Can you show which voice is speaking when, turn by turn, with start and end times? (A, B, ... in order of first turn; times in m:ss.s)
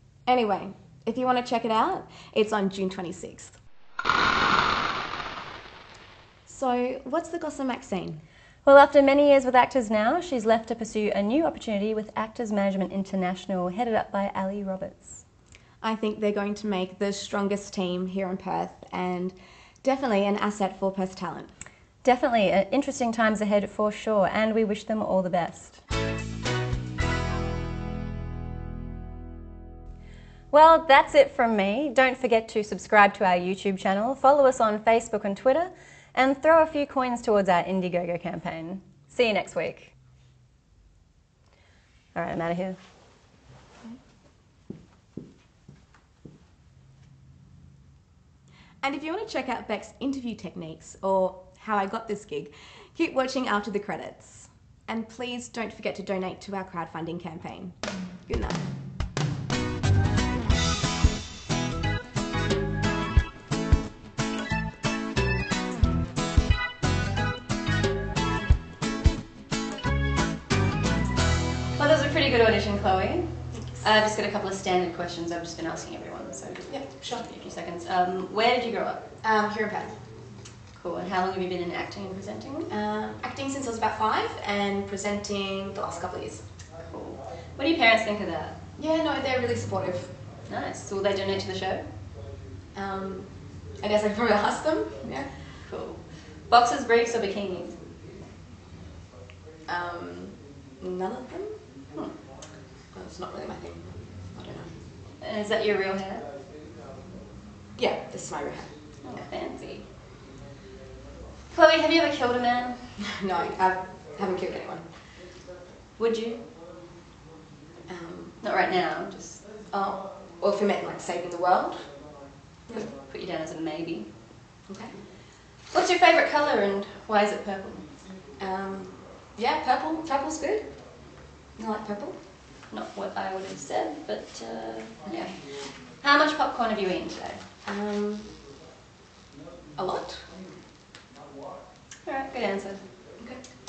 0:00.3-0:03.6 A
0:06.5-0:08.2 A
0:08.6-0:15.2 B
0:15.8-0:21.5 A
0:22.0-0:25.8 B
0:30.5-0:39.9 B
0:42.2-0:42.8 B
0:48.8-0:58.7 A
1:11.8-1:19.1 B
1:16.7-1:17.3 A
1:19.2-1:20.0 A
1:20.7-1:22.7 B
1:22.7-1:26.4 A
1:26.8-1:28.6 B
1:28.8-1:30.2 A
1:30.5-1:31.9 B
1:32.7-1:35.3 A
1:35.6-1:37.8 B
1:39.7-1:41.6 A
1:42.9-1:44.7 A
1:45.2-1:46.3 B
1:47.8-1:48.8 A
1:49.0-1:49.9 B
1:51.5-1:53.0 B
1:53.0-1:54.9 A
1:56.0-1:56.5 B
1:57.9-1:58.4 A
1:58.4-1:59.4 B
1:59.7-2:01.9 A
2:02.7-2:04.2 B
2:04.7-2:05.0 A
2:05.7-2:07.9 B
2:08.4-2:10.8 A
2:11.6-2:12.2 A
2:12.7-2:17.4 B
2:17.6-2:18.3 A
2:19.8-2:20.2 A
2:22.0-2:22.8 B